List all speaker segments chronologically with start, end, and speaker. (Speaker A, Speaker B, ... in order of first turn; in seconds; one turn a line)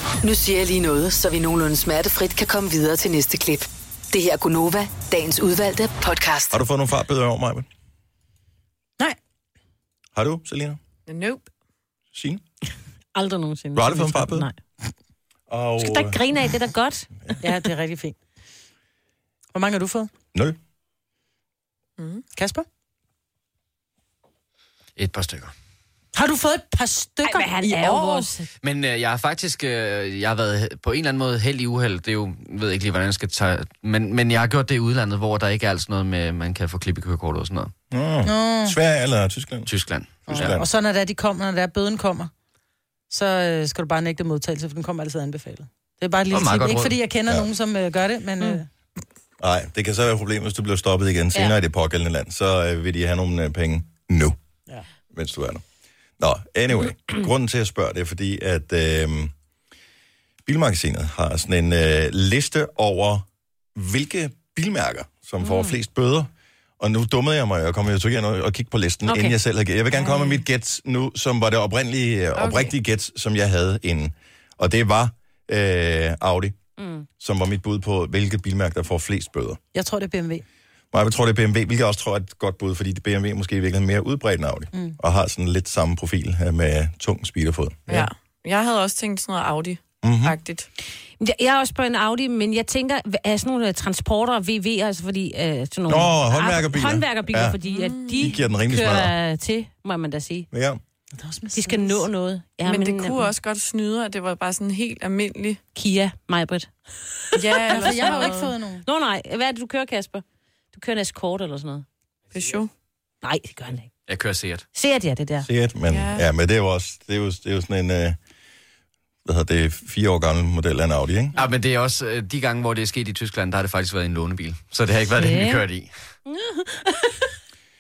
Speaker A: 0.2-6.6
Speaker B: 6.5-7.7
Speaker B: 10.1-10.8
Speaker C: 11.1-11.5
Speaker B: 12.1-12.4
Speaker D: 13.1-14.6
Speaker B: 13.7-14.5
Speaker B: 15.5-16.2
Speaker D: 15.8-17.4
Speaker E: 17.4-18.2
Speaker E: 19.5-20.1
Speaker E: 22.3-22.6
Speaker F: 25.0-25.5
Speaker E: 26.1-27.5
Speaker D: 27.2-28.5
Speaker C: 27.6-28.3
Speaker F: 28.6-37.7
Speaker B: 37.9-39.7
Speaker E: 38.2-38.8
Speaker F: 39.7-40.5
Speaker B: 40.3-40.7
Speaker E: 40.3-42.3
Speaker E: 43.1-48.7
Speaker F: 46.3-47.0
Speaker B: 49.4-54.4
Speaker B: 55.1-55.6
Speaker B: 56.2-59.3
Speaker B: 60.5-76.6
Speaker D: 65.4-65.7
Speaker D: 70.0-70.3
Speaker C: 72.3-72.7
Speaker D: 76.8-77.0
Speaker B: 77.2-79.6
Speaker E: 79.7-80.4
Speaker B: 80.9-88.1
Speaker C: 87.9-90.7
Speaker B: 90.0-90.4
Speaker D: 91.2-100.5
Speaker B: 95.9-97.6
Speaker C: 97.6-98.3
Speaker B: 98.2-99.1
Speaker B: 100.5-100.8
Speaker E: 101.1-102.0
Speaker D: 101.5-103.3
Speaker C: 102.6-105.6
Speaker D: 105.7-111.8
Speaker C: 107.3-108.5
Speaker E: 107.7-108.8
Speaker C: 112.3-112.7
Speaker D: 113.2-113.9
Speaker F: 114.1-114.7
Speaker D: 114.7-115.5
Speaker B: 115.4-118.2
Speaker C: 115.9-116.3
Speaker B: 119.2-121.4
Speaker F: 121.3-125.9
Speaker D: 125.2-125.6
Speaker D: 126.3-127.2